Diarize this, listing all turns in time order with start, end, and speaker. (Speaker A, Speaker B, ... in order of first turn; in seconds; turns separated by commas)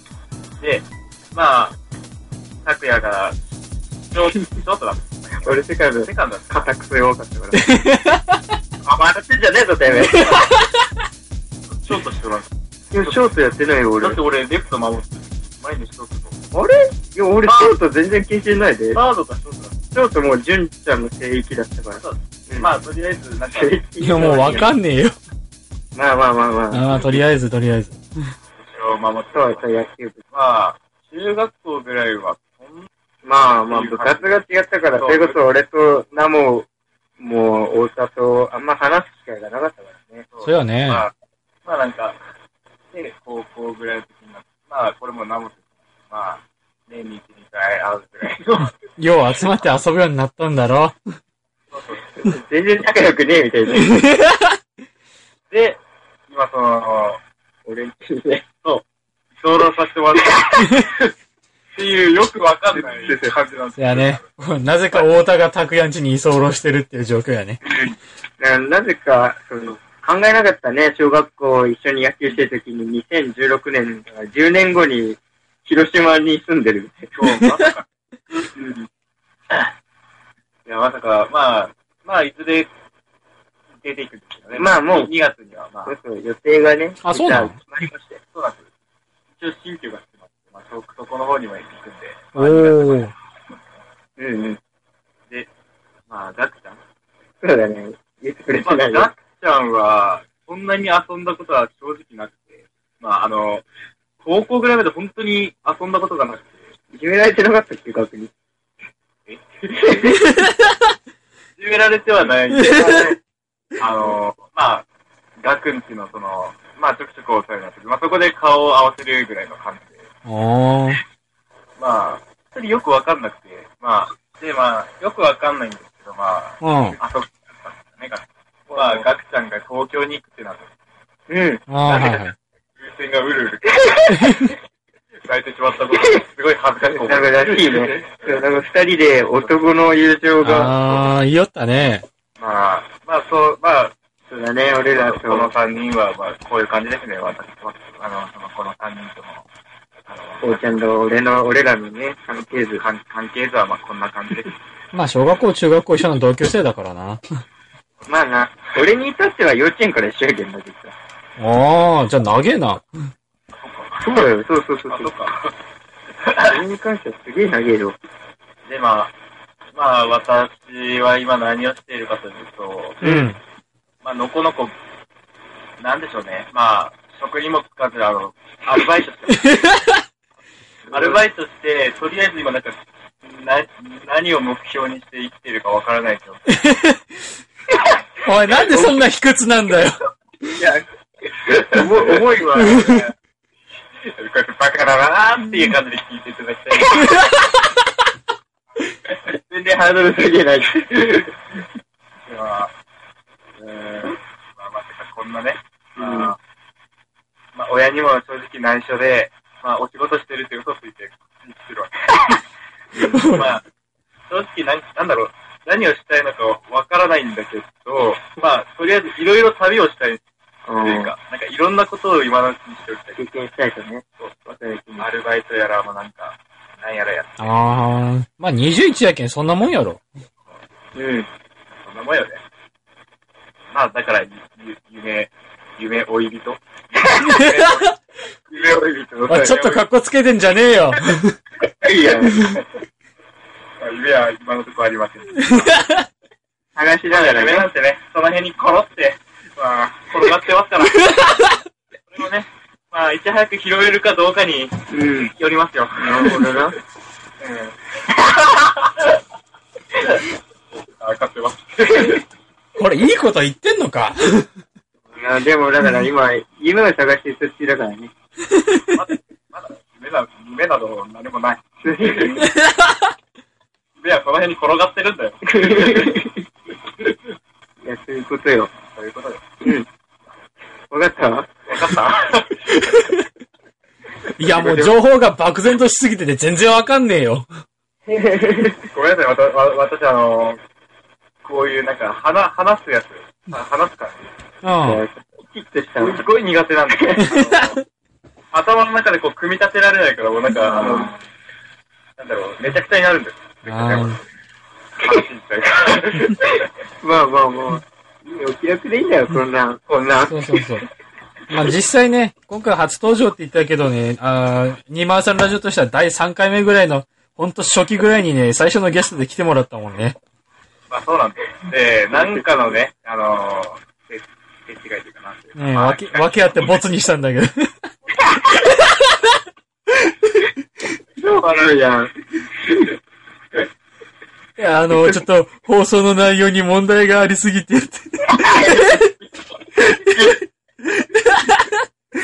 Speaker A: 0.6-1.8, Speaker A: 2.6-3.4, Speaker A: 4.1-6.7, Speaker B: 5.5-7.7, Speaker C: 7.5-8.4, Speaker B: 8.8-10.5, Speaker C: 10.2-10.6, Speaker A: 11.8-12.5, Speaker B: 12.9-14.2, Speaker A: 14.0-16.4, Speaker B: 16.5-19.0, Speaker A: 17.5-17.7, Speaker A: 18.9-19.8, Speaker B: 19.9-22.7, Speaker A: 22.0-24.6, Speaker B: 23.5-24.7, Speaker C: 24.0-25.2, Speaker B: 25.9-27.0, Speaker C: 26.7-28.0, Speaker A: 28.6-29.7, Speaker B: 29.3-30.2, Speaker A: 30.3-32.9, Speaker B: 33.2-36.7, Speaker A: 33.7-34.4, Speaker A: 35.0-35.4, Speaker B: 37.2-40.3, Speaker A: 40.3-41.1, Speaker C: 40.4-41.0, Speaker A: 41.6-42.2, Speaker A: 42.9-48.7, Speaker C: 49.0-51.0, Speaker A: 51.7-52.0, Speaker B: 52.2-54.1, Speaker C: 53.8-54.6, Speaker A: 55.5-57.2, Speaker B: 57.6-58.4, Speaker A: 59.4-60.5, Speaker B: 60.4-61.0, Speaker A: 61.8-64.2, Speaker B: 62.8-63.3, Speaker C: 63.8-67.6, Speaker B: 68.4-77.1, Speaker A: 77.2-77.8, Speaker A: 80.7-82.7, Speaker A: 83.8-85.9, Speaker B: 84.5-85.1, Speaker B: 85.9-88.2, Speaker C: 87.0-87.6, Speaker A: 88.3-88.7, Speaker A: 89.3-93.1, Speaker C: 92.4-93.1, Speaker B: 94.2-94.6, Speaker A: 96.1-96.8, Speaker B: 97.4-99.1, Speaker A: 98.5-103.7, Speaker A: 104.2-106.5, Speaker B: 106.9-108.3, Speaker B: 109.7-110.3, Speaker A: 111.6-113.1, Speaker B: 112.7-113.2, Speaker A: 113.8-114.8, Speaker A: 115.4-120.1, Speaker C: 120.2-121.0, Speaker A: 121.8-130.7, Speaker C: 126.6-127.0, Speaker B: 128.7-129.1, Speaker B: 131.3-131.6, Speaker C: 131.7-132.3, Speaker A: 131.8-132.3, Speaker A: 132.8-134.4, Speaker B: 133.9-134.3, Speaker A: 135.2-138.3, Speaker B: 136.8-140.8, Speaker C: 140.4-142.1, Speaker A: 142.4-143.9, Speaker B: 144.3-145.5, Speaker A: 144.9-149.4, Speaker A: 150.1-150.6, Speaker B: 150.4-152.8, Speaker A: 152.6-154.6, Speaker C: 154.9-157.2, Speaker B: 158.1-160.9, Speaker C: 161.4-162.9, Speaker A: 163.5-164.3, Speaker B: 164.0-165.1, Speaker A: 164.9-165.5, Speaker A: 166.2-166.6, Speaker B: 166.5-168.0, Speaker A: 168.7-169.1, Speaker A: 169.8-173.1, Speaker C: 173.0-173.4, Speaker B: 173.0-173.3, Speaker A: 174.0-174.8, Speaker A: 175.8-179.5, Speaker C: 179.4-180.0, Speaker B: 180.9-181.2, Speaker A: 180.9-186.5, Speaker C: 186.5-187.1, Speaker C: 188.2-190.0, Speaker B: 190.6-190.8, Speaker B: 191.4-193.0, Speaker A: 191.5-193.1, Speaker C: 192.5-193.1, Speaker A: 194.1-197.1, Speaker C: 196.9-197.7, Speaker B: 199.3-201.3, Speaker A: 202.2-202.7, Speaker A: 203.6-206.4, Speaker B: 206.0-206.3, Speaker A: 207.6-211.9, Speaker C: 213.0-213.5, Speaker A: 213.3-213.6, Speaker A: 214.3-220.2, Speaker B: 220.7-221.1, Speaker A: 220.8-223.2, Speaker B: 223.2-225.1, Speaker A: 224.2-224.4, Speaker A: 225.0-227.5, Speaker C: 227.4-230.0, Speaker B: 231.0-231.3, Speaker A: 231.8-232.4, Speaker A: 233.7-238.0, Speaker B: 237.1-237.4, Speaker C: 237.2-237.9, Speaker B: 238.5-239.8, Speaker C: 239.3-241.4, Speaker B: 241.8-242.4, Speaker A: 243.8-245.8, Speaker C: 245.5-246.1, Speaker B: 246.8-247.7, Speaker A: 247.1-251.5, Speaker C: 251.0-251.5, Speaker A: 252.1-256.6, Speaker B: 254.9-255.3, Speaker B: 256.0-256.8, Speaker A: 257.4-257.7, Speaker A: 261.0-262.2, Speaker C: 262.8-264.5, Speaker B: 265.1-268.1, Speaker A: 268.9-271.6, Speaker B: 271.8-272.4, Speaker C: 272.5-273.0, Speaker A: 274.0-276.2, Speaker B: 275.5-276.4, Speaker B: 277.8-278.7, Speaker A: 278.9-279.4, Speaker B: 279.6-279.9, Speaker B: 280.9-281.5, Speaker A: 281.7-282.9, Speaker C: 282.9-283.2, Speaker C: 284.4-287.5, Speaker A: 284.4-284.9, Speaker B: 288.1-288.8, Speaker A: 288.9-290.6, Speaker A: 291.4-294.3, Speaker C: 294.6-295.0, Speaker B: 294.8-296.2, Speaker A: 296.0-297.8, Speaker C: 297.2-297.8, Speaker A: 298.5-301.1, Speaker B: 300.6-301.1, Speaker A: 302.2-304.1, Speaker C: 303.7-304.2, Speaker A: 305.0-306.5, Speaker B: 307.0-310.6, Speaker C: 310.2-310.8, Speaker C: 311.5-320.2, Speaker A: 320.9-326.7, Speaker B: 322.2-322.7, Speaker C: 325.6-327.7, Speaker B: 331.2-332.1, Speaker C: 334.6-339.1, Speaker B: 338.3-339.0, Speaker B: 339.8-340.4, Speaker C: 341.0-341.8